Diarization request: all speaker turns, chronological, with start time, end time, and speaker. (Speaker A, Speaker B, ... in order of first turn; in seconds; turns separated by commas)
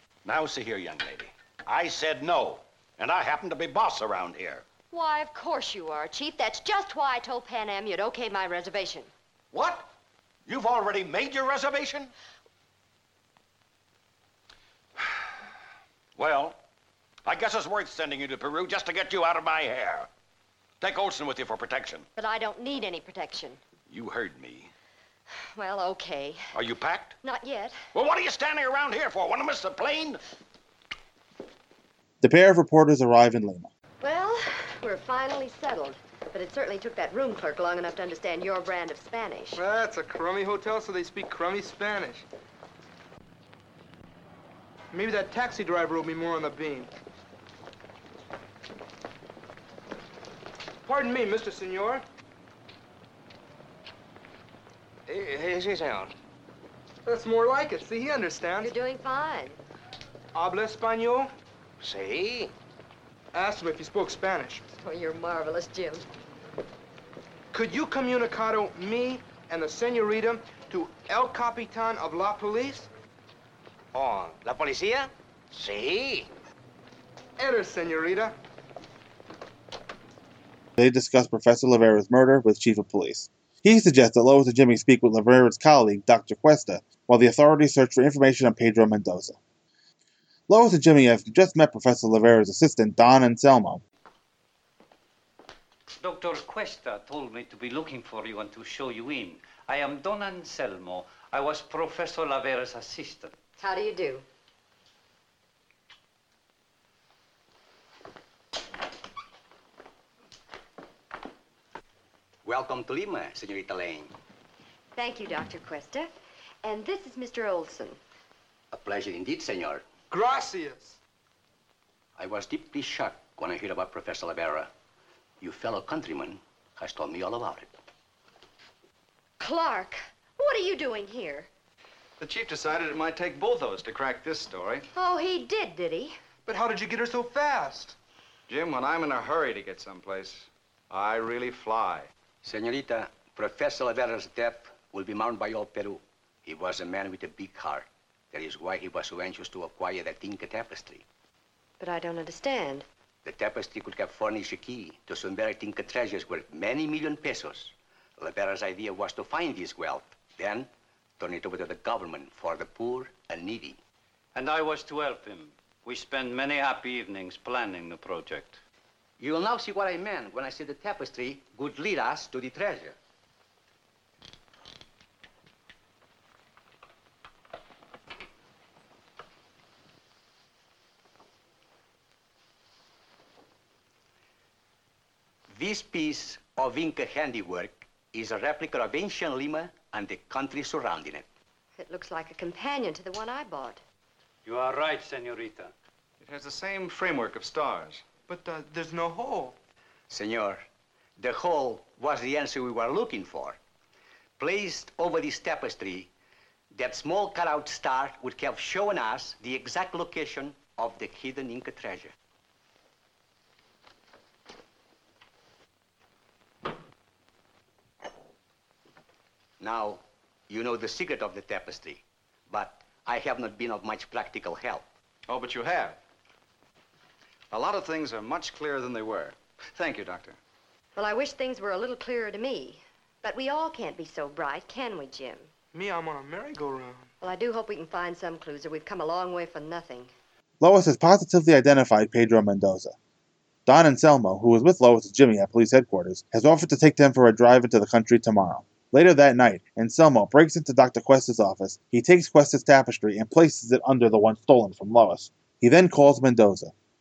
Speaker A: 0.2-4.7, Speaker B: 4.9-9.1, Speaker A: 9.5-9.8, Speaker A: 10.4-12.1, Speaker A: 16.1-16.6, Speaker A: 17.2-20.1, Speaker A: 20.8-22.1, Speaker B: 22.1-23.6, Speaker A: 23.9-24.7, Speaker B: 25.5-26.4, Speaker A: 26.5-27.1, Speaker B: 27.2-27.8, Speaker A: 27.9-30.2, Speaker C: 32.2-33.7, Speaker B: 34.0-39.6, Speaker D: 39.5-42.2, Speaker D: 44.9-46.9, Speaker D: 50.8-52.0, Speaker D: 57.0-58.7, Speaker B: 58.6-59.6, Speaker D: 60.3-61.3, Speaker D: 63.3-64.6, Speaker B: 64.7-66.0, Speaker D: 67.5-72.9, Speaker D: 77.4-78.3, Speaker C: 80.8-89.4, Speaker C: 90.5-93.8, Speaker E: 96.0-103.3, Speaker B: 103.6-104.2, Speaker F: 112.4-114.1, Speaker B: 115.0-116.1, Speaker B: 116.6-118.0, Speaker F: 118.7-119.8, Speaker D: 120.1-121.0, Speaker F: 122.2-124.7, Speaker F: 125.4-127.7, Speaker B: 129.4-131.5, Speaker G: 132.2-134.8, Speaker B: 134.9-136.2, Speaker D: 136.4-137.9, Speaker G: 138.5-142.1, Speaker F: 142.4-151.1, Speaker B: 151.8-152.8, Speaker F: 153.2-163.8, Speaker E: 164.3-168.6, Speaker F: 169.2-172.9, Speaker F: 185.5-191.3, Speaker B: 191.8-193.8, Speaker E: 194.4-195.7, Speaker G: 196.2-198.0, Speaker D: 198.3-199.6, Speaker F: 200.1-200.6, Speaker F: 201.2-203.6, Speaker F: 204.4-206.1, Speaker F: 206.7-212.1, Speaker F: 219.6-224.9, Speaker G: 225.3-226.0, Speaker G: 227.5-230.3, Speaker B: 230.9-235.5, Speaker D: 235.7-237.1, Speaker B: 237.2-240.1, Speaker C: 240.6-242.9, Speaker C: 243.7-256.7